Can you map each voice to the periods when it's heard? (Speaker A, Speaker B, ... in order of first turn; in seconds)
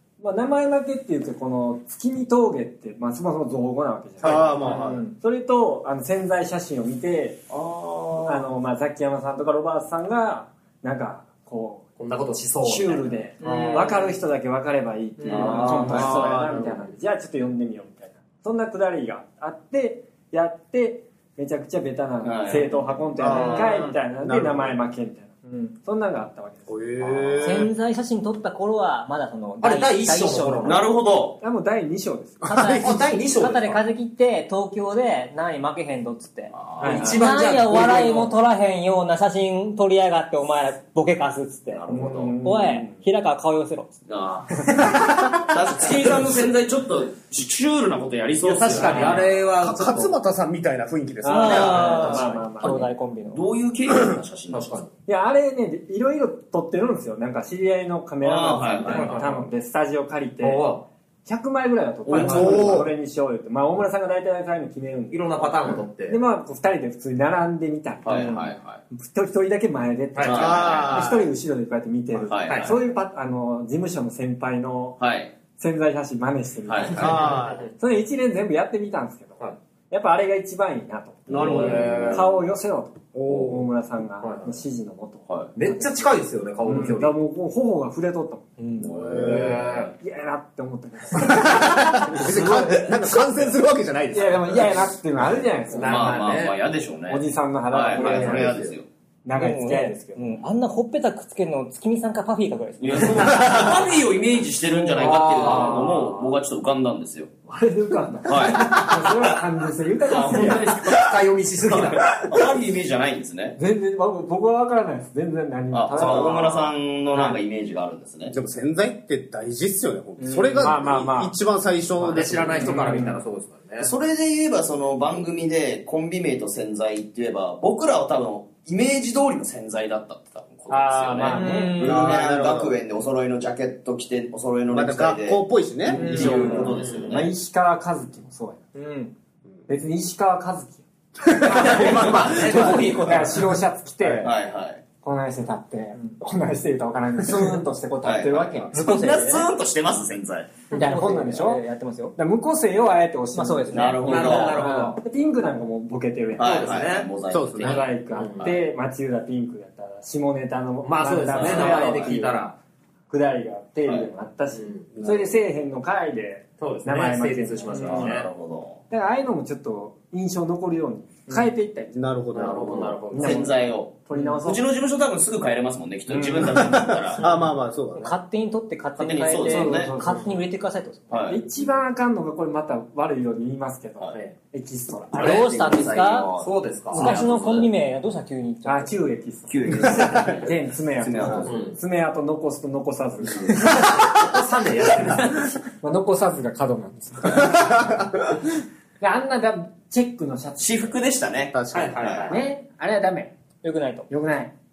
Speaker A: 0.2-7.4, 8.2-11.9, 12.6-27.6, 31.4-32.6, 36.8-37.2, 41.9-43.0, 48.8-49.1, 51.2-52.8, 55.0-60.7, 61.2-65.5, 66.1-75.0, 75.6-85.9, 86.7-88.9, 89.9-92.9, 94.1-96.2, 97.1-98.7, 99.2-100.5, 104.7-106.4, 107.5-111.0, 113.6-117.4, 120.5-121.3, 122.6-123.2, 130.7-132.2, 135.9-138.7, 139.7-144.3, 145.0-149.2, 150.7-151.6, 152.2-156.8, 157.6-162.4, 163.1-168.1, 168.9-171.9, 173.2-174.7, 176.1-176.6, 179.4-180.4, 181.3-185.3, 188.6-193.9, 195.8-197.9, 199.0-200.9, 202.3-203.3, 204.1-204.5
Speaker B: 4.2-5.0, 15.8-16.9, 23.2-24.8, 26.7-27.7, 32.4-33.0, 49.6-52.4, 62.1-62.9, 70.3-71.3, 76.9-77.7, 81.4-82.1, 83.1-83.6, 89.0-89.6, 91.2-94.9, 97.9-98.7, 116.0-116.4, 118.3-122.8, 131.8-132.8, 134.7-136.6, 157.3-157.9, 164.9-165.3, 171.9-173.1, 176.4-178.2, 189.9-190.3, 197.5-198.1, 201.5-202.3
Speaker C: 4.7-5.1, 27.4-30.8, 32.4-41.8, 42.4-43.9, 51.2-53.4, 99.3-103.7, 131.3-132.2, 138.7-139.1, 148.7-149.5, 150.7-152.1, 153.3-154.9, 177.9-181.2, 185.1-186.3, 186.9-189.0, 203.6-204.1
Speaker D: 7.5-8.5, 13.4-14.0, 15.2-16.5, 22.2-23.8, 30.6-31.4, 36.5-37.2, 41.7-42.4, 44.1-49.5, 51.3-54.8, 58.2-59.4, 62.0-62.9, 68.0-68.8, 70.2-71.1, 72.2-72.8, 75.0-75.3, 76.7-77.3, 81.3-82.2, 88.8-89.9, 95.8-98.8, 102.8-107.3, 108.2-109.3, 110.1-113.5, 115.7-118.3, 123.8-137.3, 141.4-143.4, 144.1-144.8, 148.0-150.6, 153.7-154.7, 156.4-157.9, 161.3-162.1, 167.8-168.8, 172.6-177.2, 179.0-179.9, 181.1-181.4, 185.1-187.7, 189.5-191.7, 200.6-202.3
Speaker E: 12.0-13.8, 15.2-16.0, 23.6-23.9, 29.6-30.8, 32.8-33.8, 36.8-38.3, 45.8-46.5, 48.4-50.1, 54.5-54.9, 58.9-59.4, 60.4-60.8, 65.1-66.2, 70.1-70.6, 72.5-72.7, 77.3-77.6, 81.3-82.3, 84.2-84.5, 85.5-87.1, 89.1-89.9, 92.3-92.6, 95.7-96.6, 105.0-105.9, 110.3-112.1, 122.0-123.9, 136.0-137.2, 141.4-143.4, 154.0-155.0, 156.4-157.1, 158.1-158.6, 160.8-162.5, 164.5-164.9, 166.6-168.3, 172.3-173.5, 186.3-187.1, 191.4-191.8, 193.8-195.4, 201.7-202.4